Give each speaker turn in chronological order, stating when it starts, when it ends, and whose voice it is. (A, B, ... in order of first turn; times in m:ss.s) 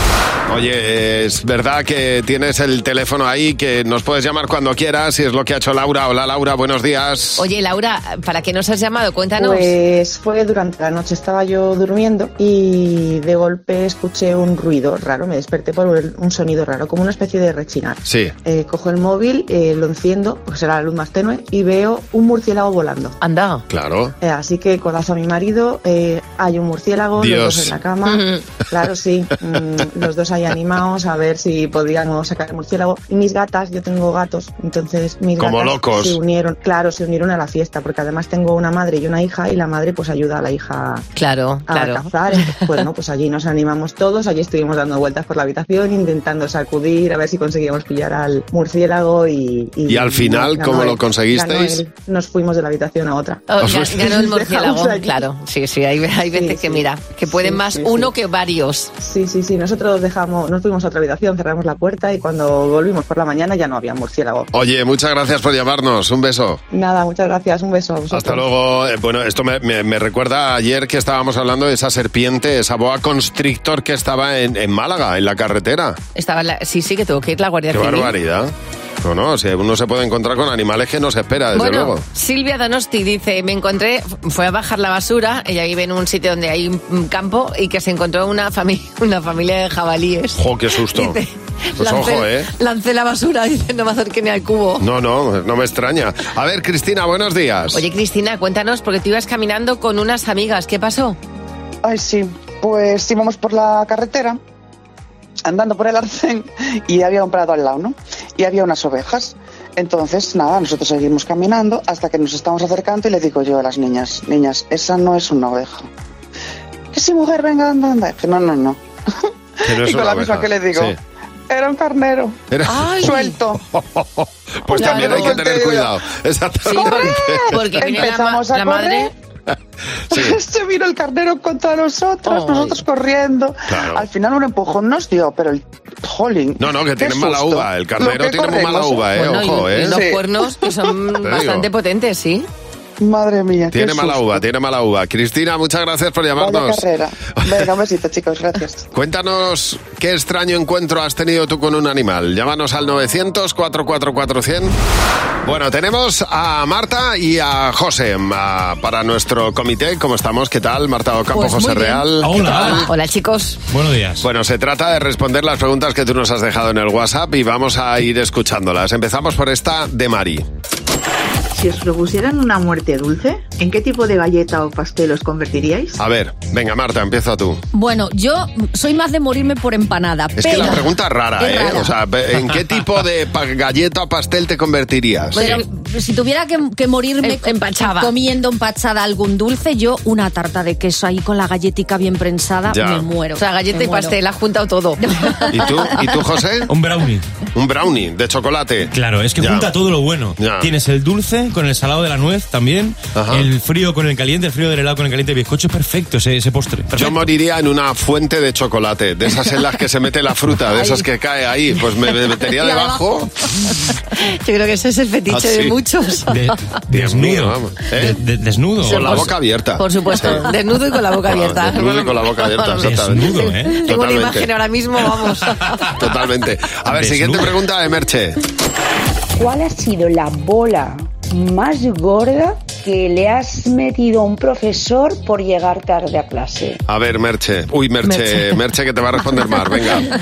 0:00.5-0:07.4 A
0:07.4-0:09.7 B
0:09.4-0:23.2 C
0:18.0-0:18.3 A
0:23.2-0:23.6 B
0:23.7-0:24.1 A
0:24.2-0:41.0 C
0:27.2-0:27.7 A
0:28.1-0:28.4 B
0:35.4-0:36.2 A
0:41.2-0:42.6 B
0:41.7-0:55.2 C
0:49.9-0:51.8 A
0:53.5-0:58.9 B
0:53.6-0:54.1 A
0:56.3-0:58.1 C
0:59.0-1:04.5 C
1:04.5-1:06.6 A
1:06.7-1:08.5 C
1:08.1-1:16.0 A
1:16.2-1:18.1 B
1:17.7-1:22.0 A
1:21.5-1:34.8 B
1:30.4-1:31.2 A
1:31.8-1:32.5 A
1:34.8-1:37.8 A
1:37.7-1:41.2 B
1:41.8-1:44.4 D
1:45.5-1:55.9 D
1:56.9-2:00.9 D
1:59.6-2:01.0 A
2:01.5-2:02.4 D
2:02.5-2:03.0 A
2:02.7-2:03.4 B
2:03.0-2:03.6 D
2:03.7-2:07.6 A
2:04.7-2:06.0 D
2:04.7-2:05.4 B
2:06.7-2:09.1 B
2:06.8-2:09.1 D
2:10.1-2:10.4 A
2:10.1-2:19.1 D
2:12.3-2:12.8 B
2:13.7-2:14.0 A
2:16.6-2:20.0 A
2:19.1-2:22.5 B
2:19.9-2:20.2 D
2:21.2-2:21.7 A
2:23.0-2:24.4 D
2:23.7-2:27.7 A
2:26.4-2:28.9 D
2:28.9-2:34.7 A
2:35.4-2:42.8 A
2:41.4-2:43.6 B
2:42.2-2:42.9 E
2:43.7-2:44.3 E
2:44.2-2:50.4 A
2:51.6-2:55.9 F
2:56.0-2:57.6 A
2:57.7-3:02.0 G
3:00.4-3:05.6 A
3:05.3-3:14.2 G
3:05.3-3:05.6 B
3:07.2-3:08.1 B
3:12.7-3:13.1 A
3:13.4-3:15.6 B
3:15.2-3:15.7 G
3:15.5-3:16.7 A
3:16.7-3:17.3 E
3:17.6-3:19.7 A
3:18.9-3:27.3 E
3:20.4-3:20.7 A
3:23.2-3:23.5 A
3:26.9-3:33.3 A
3:34.2-3:36.4 B
3:35.3-3:35.8 A
3:36.3-3:39.4 E
3:36.9-3:38.2 A
3:38.8-3:40.5 A
3:38.9-3:45.7 B
3:41.2-3:43.3 A
3:42.8-3:43.8 E
3:43.9-3:44.5 A
3:46.0-3:48.4 A
3:46.9-3:47.6 E
3:49.4-3:56.8 H
3:56.9-4:00.1 A
3:58.1-3:58.5 B